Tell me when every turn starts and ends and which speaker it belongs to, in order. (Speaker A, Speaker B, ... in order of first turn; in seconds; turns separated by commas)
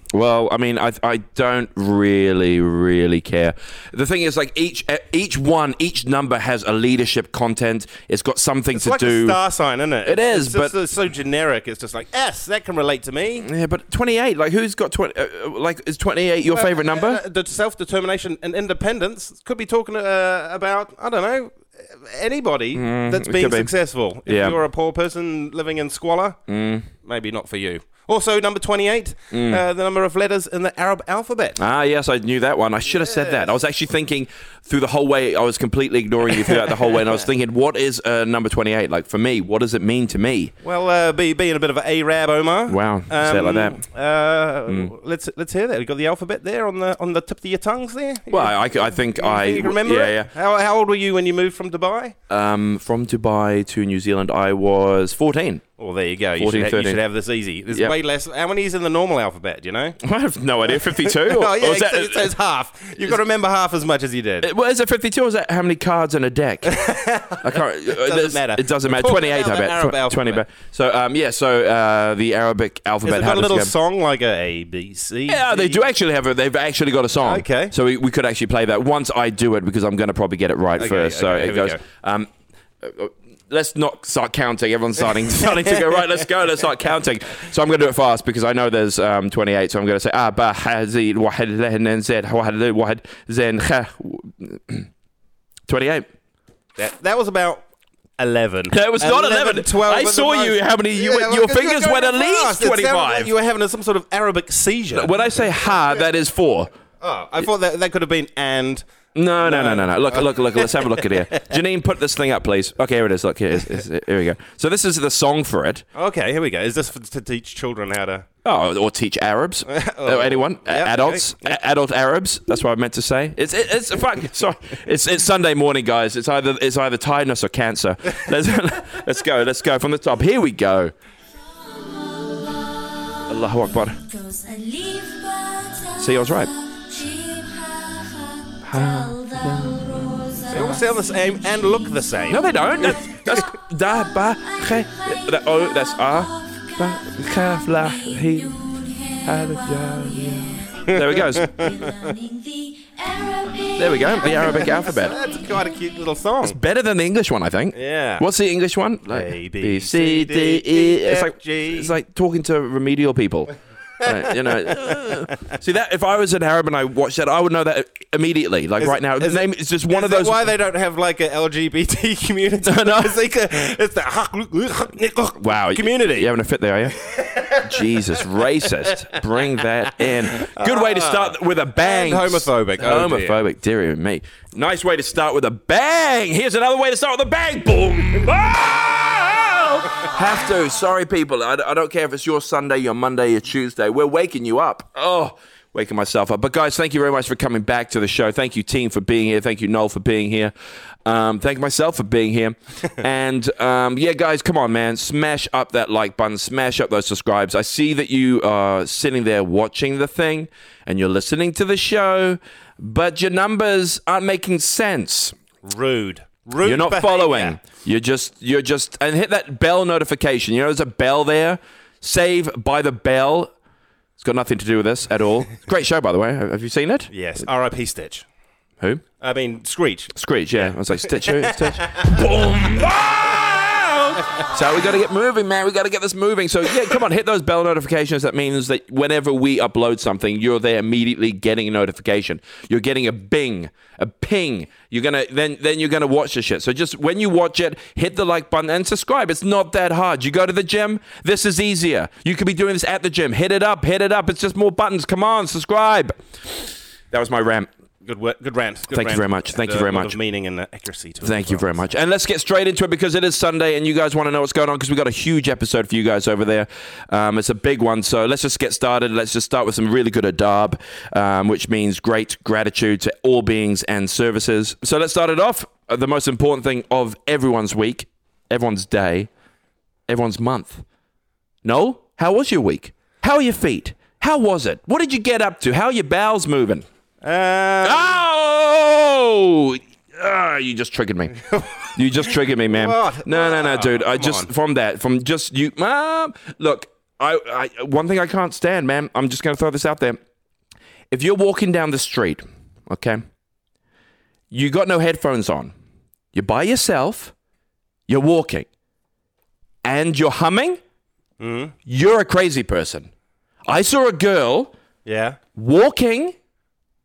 Speaker A: 0.1-9.4, Speaker B: 8.7-13.5, Speaker A: 10.0-10.7, Speaker A: 13.4-17.2, Speaker B: 16.4-26.4, Speaker A: 22.7-23.7, Speaker A: 24.2-24.6, Speaker A: 26.5-26.9, Speaker B: 27.0-31.6, Speaker A: 29.3-29.6, Speaker A: 31.6-40.5, Speaker B: 32.9-33.5, Speaker B: 36.3-37.1, Speaker B: 40.6-52.1, Speaker A: 42.7-43.8, Speaker A: 48.3-50.3, Speaker A: 52.3-55.7, Speaker B: 55.8-60.0, Speaker A: 56.4-57.0, Speaker A: 60.0-62.3, Speaker B: 60.6-64.5, Speaker A: 64.4-66.8, Speaker B: 66.7-70.4, Speaker A: 67.4-73.7, Speaker B: 73.0-75.8, Speaker A: 75.3-82.3, Speaker B: 77.2-77.7, Speaker B: 80.8-81.8, Speaker A: 82.8-94.9, Speaker A: 95.7-96.0, Speaker B: 96.8-97.6, Speaker B: 98.2-105.2, Speaker A: 98.7-103.3, Speaker A: 104.9-106.7, Speaker B: 107.0-108.8, Speaker A: 109.1-115.8, Speaker B: 109.4-111.4, Speaker B: 115.9-118.2, Speaker A: 118.4-130.9, Speaker B: 119.7-121.5, Speaker C: 131.4-143.2, Speaker A: 133.3-134.0, Speaker A: 136.0-136.5, Speaker A: 138.6-140.3, Speaker B: 140.5-142.5, Speaker A: 142.3-148.6, Speaker C: 143.9-155.7, Speaker A: 149.2-151.5, Speaker B: 150.8-151.7, Speaker A: 153.8-155.2, Speaker B: 154.5-156.6, Speaker A: 156.4-170.5, Speaker B: 157.7-158.2, Speaker B: 159.1-161.9, Speaker B: 164.0-164.8, Speaker B: 168.8-176.3, Speaker A: 172.6-173.1, Speaker A: 175.4-200.5, Speaker B: 177.2-177.6, Speaker B: 180.1-183.4, Speaker A: 201.0-215.3, Speaker B: 215.6-217.6, Speaker A: 216.6-223.5, Speaker A: 224.2-227.1, Speaker B: 227.1-228.2, Speaker B: 229.2-232.2, Speaker A: 230.1-256.2, Speaker A: 257.1-257.7, Speaker B: 258.0-261.9, Speaker A: 258.9-260.1, Speaker A: 261.2-279.3, Speaker A: 280.1-280.8, Speaker A: 281.6-286.8, Speaker B: 287.2-288.2, Speaker A: 287.8-291.4, Speaker B: 291.4-294.5, Speaker A: 291.9-300.2, Speaker A: 301.1-303.2, Speaker A: 304.5-305.7, Speaker A: 306.3-307.3, Speaker A: 308.1-308.7, Speaker A: 309.8-310.8, Speaker B: 311.4-311.7, Speaker A: 311.9-313.1, Speaker A: 313.7-314.7, Speaker B: 315.1-315.4, Speaker A: 315.5-316.3